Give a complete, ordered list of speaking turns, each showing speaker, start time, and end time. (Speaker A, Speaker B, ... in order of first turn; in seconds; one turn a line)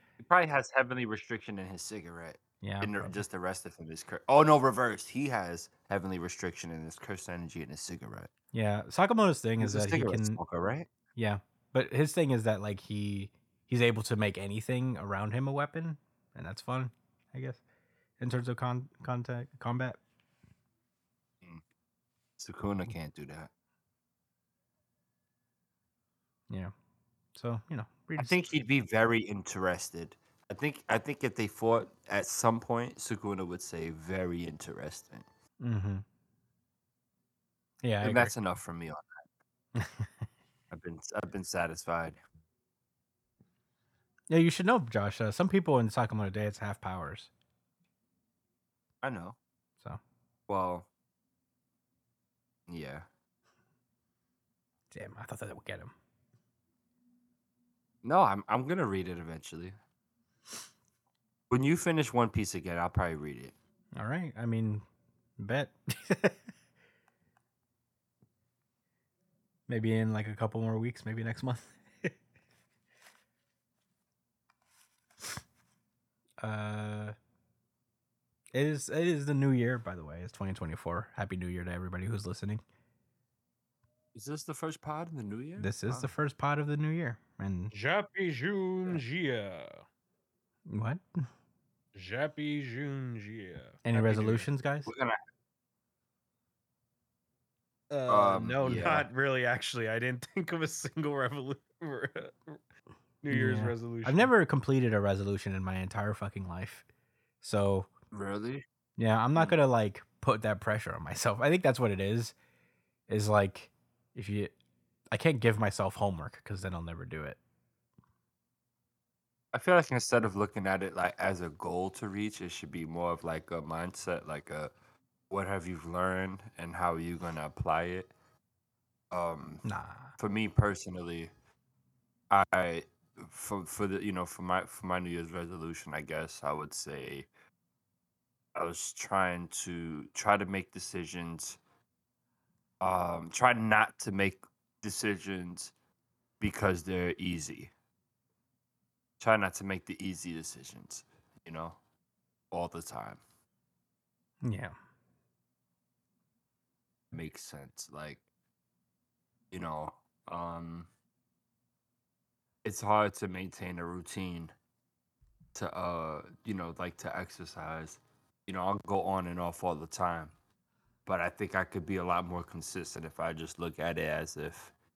Speaker A: 0.2-8.3
Speaker B: 2.6-3.2
Speaker B: 8.5-10.4
Speaker A: 9.6-10.9
Speaker B: 11.2-17.6
Speaker B: 18.2-20.0
Speaker A: 22.4-23.5
Speaker B: 27.4-28.4
Speaker A: 28.2-35.3
Speaker B: 35.6-36.0
Speaker B: 37.8-38.3
Speaker A: 38.0-39.2
Speaker B: 39.8-40.3
Speaker A: 40.7-42.2
Speaker B: 44.3-47.3
Speaker A: 49.0-49.4
Speaker A: 50.5-50.9
Speaker A: 52.7-53.1
Speaker B: 54.9-55.9
Speaker A: 58.0-59.8
Speaker A: 61.5-63.5
Speaker B: 64.0-64.8
Speaker B: 65.4-66.4
Speaker B: 69.7-72.1
Speaker B: 76.4-77.2
Speaker B: 78.5-82.6
Speaker A: 84.2-86.1
Speaker B: 85.6-87.7
Speaker C: 87.7-89.8
Speaker B: 90.7-91.2
Speaker C: 92.0-94.5
Speaker B: 93.8-94.9
Speaker A: 94.9-95.2
Speaker C: 97.9-102.6
Speaker A: 98.1-99.1
Speaker C: 103.2-104.3
Speaker B: 103.3-106.8
Speaker B: 107.4-107.9
Speaker A: 108.1-108.6
Speaker B: 109.0-112.3
Speaker B: 113.1-114.5
Speaker B: 115.1-117.4
Speaker A: 119.5-124.7
Speaker A: 125.3-128.1
Speaker A: 129.1-129.6
Speaker B: 129.6-130.2
Speaker A: 130.2-131.3
Speaker A: 132.3-137.3
Speaker A: 138.6-141.6
Speaker A: 142.8-145.7
Speaker A: 146.4-147.7
Speaker A: 149.2-151.8
Speaker A: 152.5-153.2
Speaker B: 154.4-154.8
Speaker A: 157.1-158.2
Speaker A: 159.5-160.9
Speaker A: 162.6-164.5
Speaker A: 165.6-170.3
Speaker A: 171.1-174.7